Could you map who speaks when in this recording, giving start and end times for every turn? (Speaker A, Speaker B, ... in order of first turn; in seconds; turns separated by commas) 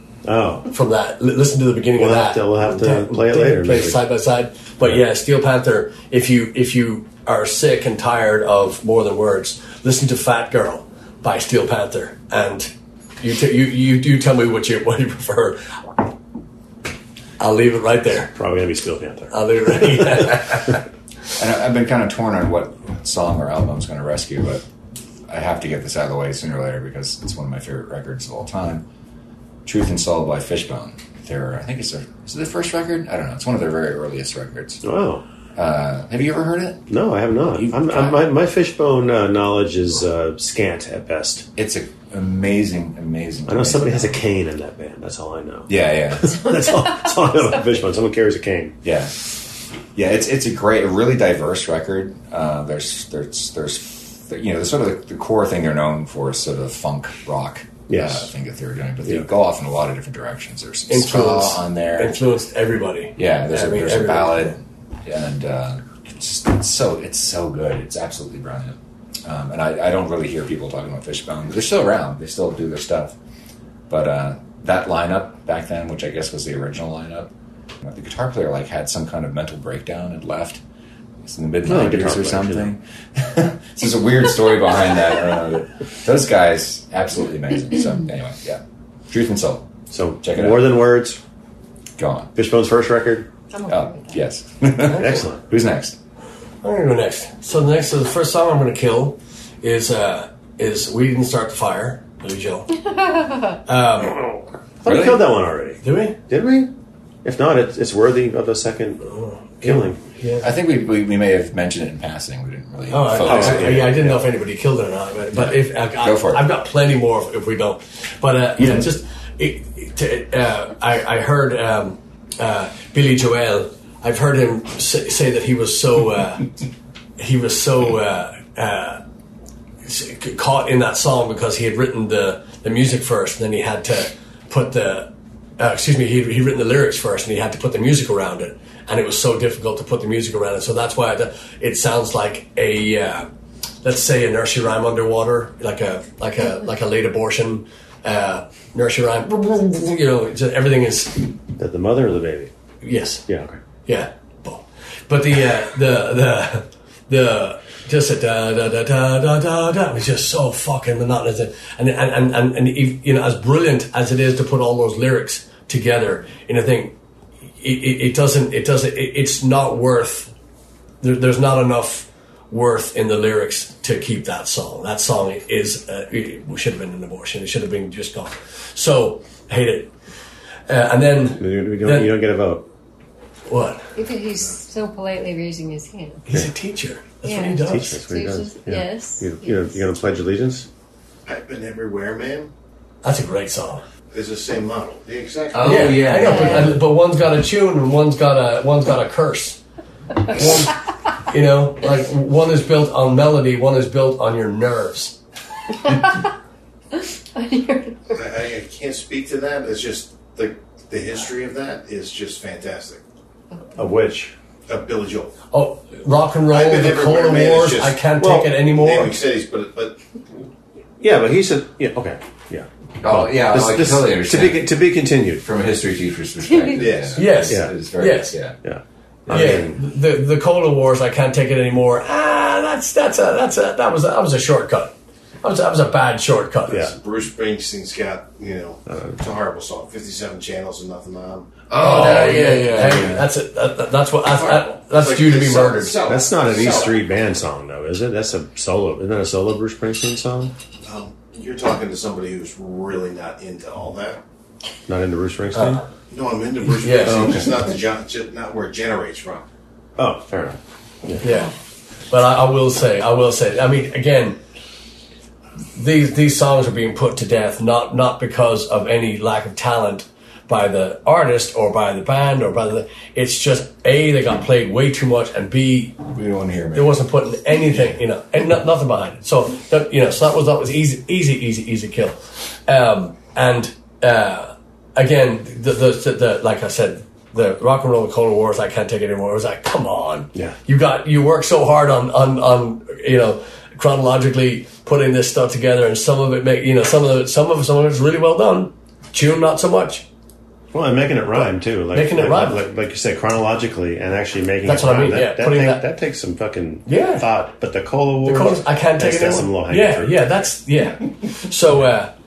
Speaker A: 0.2-0.7, Speaker B: 0.7-15.7, Speaker A: 2.0-4.0, Speaker B: 17.4-18.3, Speaker A: 18.4-20.0, Speaker B: 19.3-20.7, Speaker C: 21.4-24.6, Speaker C: 25.3-28.9, Speaker C: 29.6-34.8, Speaker A: 34.8-35.2, Speaker C: 35.5-36.9, Speaker A: 36.9-41.5, Speaker C: 37.6-38.2, Speaker C: 41.6-44.2, Speaker A: 43.5-48.8, Speaker C: 45.7-46.4, Speaker D: 46.5-47.1, Speaker C: 48.8-49.3, Speaker C: 49.9-62.2, Speaker A: 57.9-58.3, Speaker B: 60.9-64.5, Speaker C: 63.1-73.2, Speaker C: 73.9-80.6, Speaker C: 81.2-90.9, Speaker A: 81.6-82.7, Speaker A: 89.9-91.2, Speaker C: 92.0-92.3, Speaker A: 92.3-93.3, Speaker D: 93.5-94.2, Speaker C: 93.7-96.0, Speaker A: 94.8-95.4, Speaker B: 96.6-102.8, Speaker D: 103.0-103.6, Speaker B: 103.7-104.2, Speaker A: 104.8-109.1, Speaker C: 104.8-105.2, Speaker B: 105.8-106.2, Speaker B: 109.0-110.5, Speaker A: 109.6-110.0, Speaker C: 110.4-114.1, Speaker B: 112.9-126.5, Speaker A: 113.2-114.2, Speaker C: 115.3-116.5, Speaker B: 127.2-129.0, Speaker B: 129.8-143.3, Speaker B: 143.8-151.3, Speaker A: 151.6-152.5, Speaker B: 152.8-153.3, Speaker A: 153.3-153.6, Speaker B: 153.8-166.9, Speaker B: 167.6-170.3, Speaker B: 171.0-179.9, Speaker B: 180.7-182.2, Speaker A: 181.4-182.7, Speaker B: 183.5-183.9, Speaker D: 183.9-186.2, Speaker B: 186.2-188.0, Speaker D: 187.2-189.9, Speaker A: 187.6-190.7, Speaker E: 191.3-192.5, Speaker B: 193.0-193.8, Speaker E: 194.1-196.1, Speaker C: 195.5-196.8, Speaker B: 195.6-199.6, Speaker D: 196.0-196.8, Speaker B: 200.3-205.2, Speaker D: 205.9-206.2, Speaker D: 207.0-208.2, Speaker E: 208.1-213.0, Speaker A: 213.8-214.3, Speaker E: 214.7-215.3, Speaker B: 215.5-219.2, Speaker E: 216.5-218.0, Speaker A: 218.2-218.6, Speaker E: 218.6-220.0, Speaker A: 221.0-225.4, Speaker C: 223.0-224.7, Speaker C: 225.4-228.6, Speaker D: 226.5-226.8, Speaker E: 226.7-227.3, Speaker B: 227.2-228.3, Speaker A: 227.5-227.8, Speaker A: 228.6-229.8, Speaker B: 229.3-236.9, Speaker E: 236.8-241.7, Speaker A: 238.9-239.2, Speaker C: 241.7-243.3, Speaker B: 241.8-246.0, Speaker A: 242.3-243.1, Speaker C: 244.3-244.7, Speaker E: 244.8-246.9, Speaker C: 245.8-246.9, Speaker A: 246.1-250.5, Speaker E: 250.8-254.2, Speaker A: 254.9-255.8, Speaker E: 256.1-259.5, Speaker B: 256.8-257.4, Speaker A: 257.0-257.6, Speaker A: 260.0-261.2, Speaker B: 261.2-261.5, Speaker B: 262.1-264.4, Speaker B: 265.8-276.0, Speaker C: 276.1-277.0, Speaker B: 276.7-300.1, Speaker A: 300.7-310.4, Speaker B: 301.4-302.6, Speaker B: 304.6-305.9, Speaker B: 306.9-307.3, Speaker B: 308.2-312.1